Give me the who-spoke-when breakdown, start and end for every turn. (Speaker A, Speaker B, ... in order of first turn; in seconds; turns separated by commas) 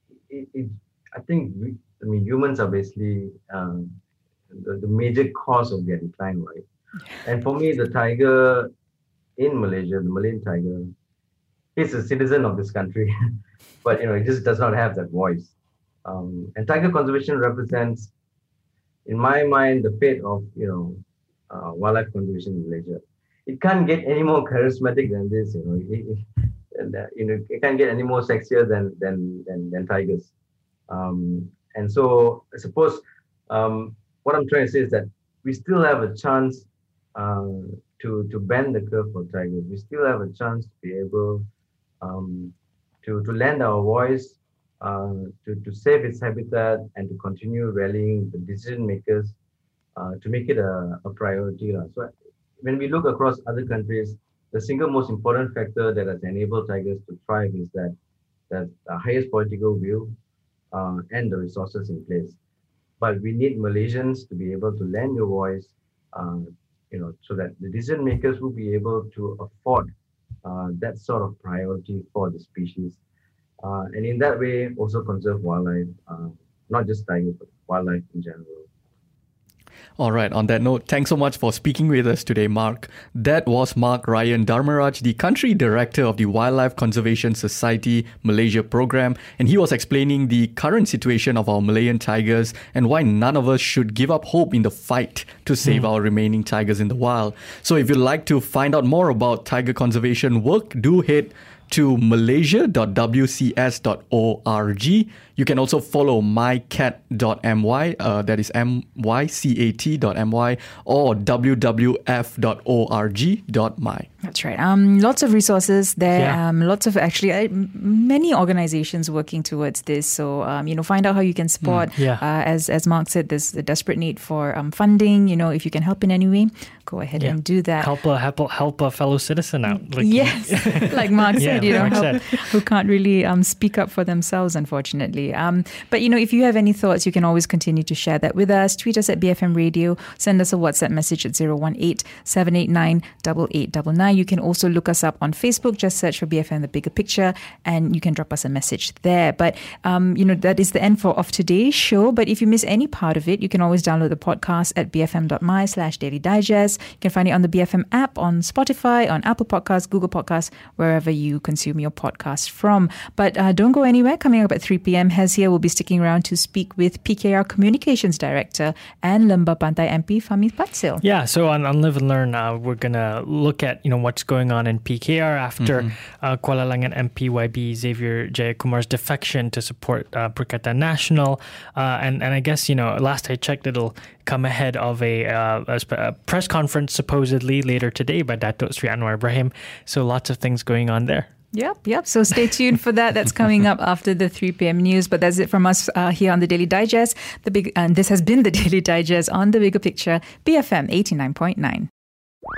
Speaker A: 0.3-4.0, Speaker A: 4.5-6.7, Speaker A: 7.2-8.7, Speaker A: 9.4-10.9, Speaker A: 11.8-13.1, Speaker A: 13.8-15.5, Speaker A: 16.0-18.1, Speaker A: 19.1-30.3, Speaker A: 30.9-41.5, Speaker A: 42.0-49.3, Speaker A: 50.0-57.9, Speaker A: 58.5-60.1, Speaker A: 60.7-62.4, Speaker A: 63.0-69.9, Speaker A: 70.4-73.0, Speaker A: 73.6-78.7, Speaker B: 80.0-114.1, Speaker C: 114.2-127.9, Speaker D: 121.7-122.2, Speaker D: 127.2-132.2, Speaker C: 129.7-171.0, Speaker D: 171.0-191.3, Speaker B: 175.6-175.9, Speaker C: 191.5-201.9